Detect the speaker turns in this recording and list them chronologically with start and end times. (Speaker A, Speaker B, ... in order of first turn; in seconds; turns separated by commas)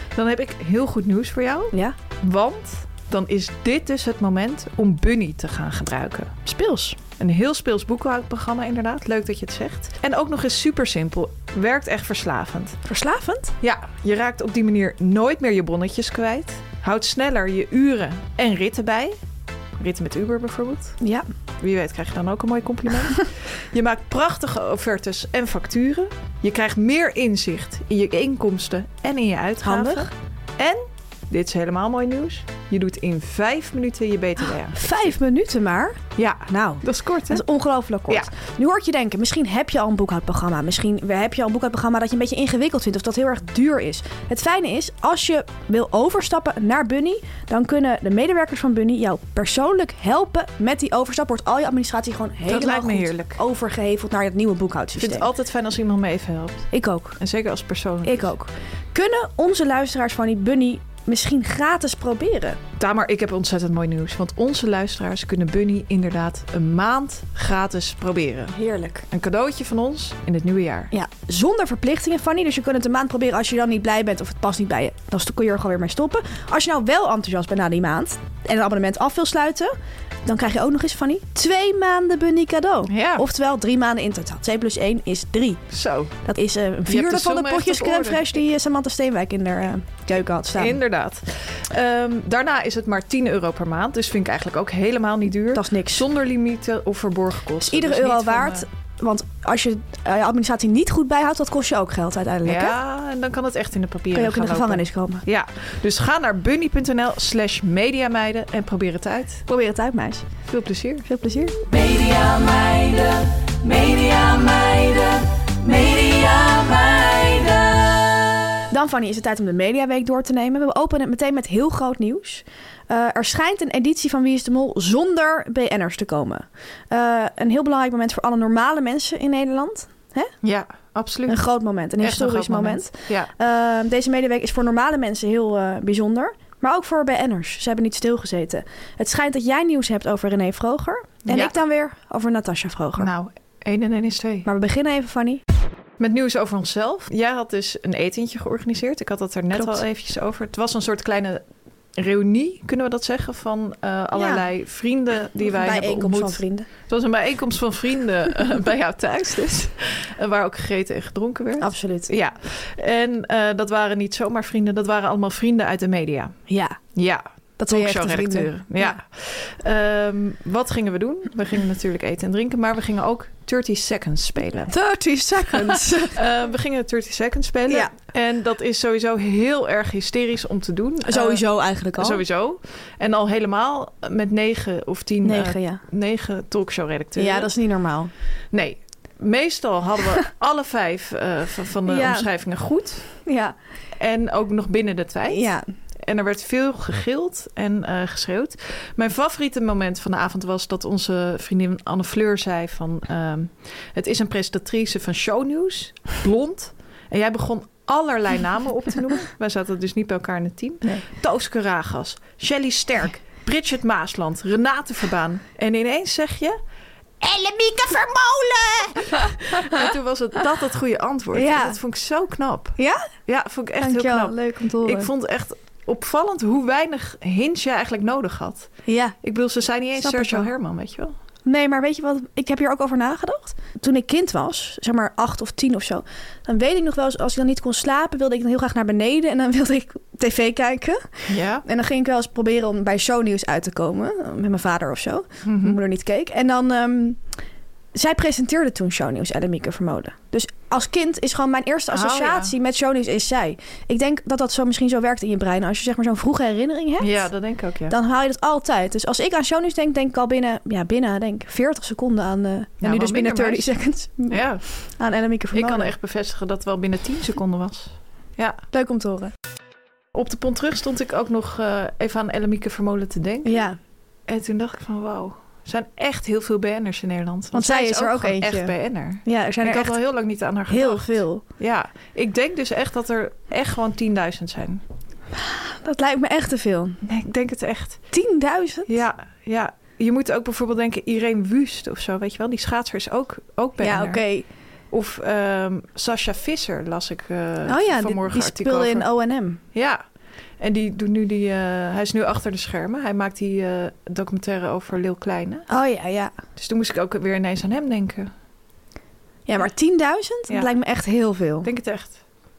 Speaker A: 0.1-6.3, Speaker B: 6.5-7.0, Speaker A: 7.2-12.8, Speaker B: 12.8-13.5, Speaker A: 13.6-19.1, Speaker A: 19.8-21.0, Speaker B: 21.0-21.3, Speaker A: 21.6-34.9, Speaker B: 29.6-30.1, Speaker B: 34.7-55.3, Speaker A: 36.2-37.4, Speaker A: 52.5-53.4, Speaker A: 55.0-56.7, Speaker B: 56.7-57.2, Speaker A: 57.2-58.3, Speaker B: 58.0-62.6, Speaker A: 62.8-68.5, Speaker B: 68.5-69.0, Speaker A: 69.1-70.9, Speaker B: 70.9-79.7, Speaker B: 80.2-85.6, Speaker A: 82.9-83.2, Speaker A: 85.7-86.2, Speaker B: 86.2-90.8, Speaker A: 86.9-88.3, Speaker A: 90.6-98.7, Speaker B: 95.5-96.0, Speaker B: 97.6-102.8, Speaker A: 102.5-109.4, Speaker B: 104.1-105.2, Speaker B: 109.5-110.3, Speaker A: 110.5-111.1, Speaker B: 111.0-111.6, Speaker C: 111.7-114.8, Speaker C: 115.6-117.7, Speaker B: 118.7-130.3, Speaker A: 130.4-131.4, Speaker B: 131.3-143.1, Speaker A: 132.0-133.3, Speaker A: 141.3-141.5, Speaker A: 143.0-144.5, Speaker B: 144.4-145.4, Speaker A: 146.0-151.4, Speaker B: 149.5-149.8, Speaker A: 152.0-166.4, Speaker B: 154.2-154.4, Speaker B: 155.4-156.7, Speaker B: 161.6-162.1, Speaker B: 166.5-166.8, Speaker A: 166.9-174.8, Speaker B: 167.6-169.0, Speaker B: 174.7-176.2, Speaker A: 176.1-181.4, Speaker B: 181.1-182.2, Speaker A: 182.0-187.5, Speaker B: 185.2-185.8, Speaker B: 187.2-188.1, Speaker A: 188.5-193.2, Speaker B: 191.9-192.3, Speaker B: 193.2-193.6, Speaker A: 194.0-195.5, Speaker B: 195.3-195.7, Speaker A: 196.0-216.6, Speaker A: 217.2-231.1, Speaker B: 219.1-219.8, Speaker B: 221.3-221.8, Speaker B: 222.8-223.1, Speaker B: 223.8-225.1, Speaker B: 228.9-229.2, Speaker B: 230.0-230.5, Speaker B: 231.4-247.2, Speaker A: 241.3-241.6, Speaker A: 245.5-245.8, Speaker B: 247.9-257.2, Speaker A: 251.9-252.5, Speaker A: 257.0-257.9, Speaker B: 257.9-265.9, Speaker A: 262.8-263.7, Speaker A: 264.3-264.7, Speaker A: 265.5-268.6, Speaker B: 268.7-269.3, Speaker A: 270.1-273.6, Speaker B: 273.4-273.8, Speaker A: 274.3-284.8, Speaker B: 277.5-278.7, Speaker B: 279.2-280.0, Speaker B: 280.7-281.4, Speaker B: 285.3-287.0, Speaker A: 287.0-288.1, Speaker B: 288.1-288.9, Speaker A: 288.9-294.2, Speaker B: 293.8-294.5, Speaker A: 294.9-299.1, Speaker B: 297.7-299.6, Speaker A: 299.7-300.0, Speaker A: 300.6-305.7, Speaker B: 305.7-306.3, Speaker A: 306.6-308.3, Speaker B: 309.5-311.7, Speaker A: 311.6-312.2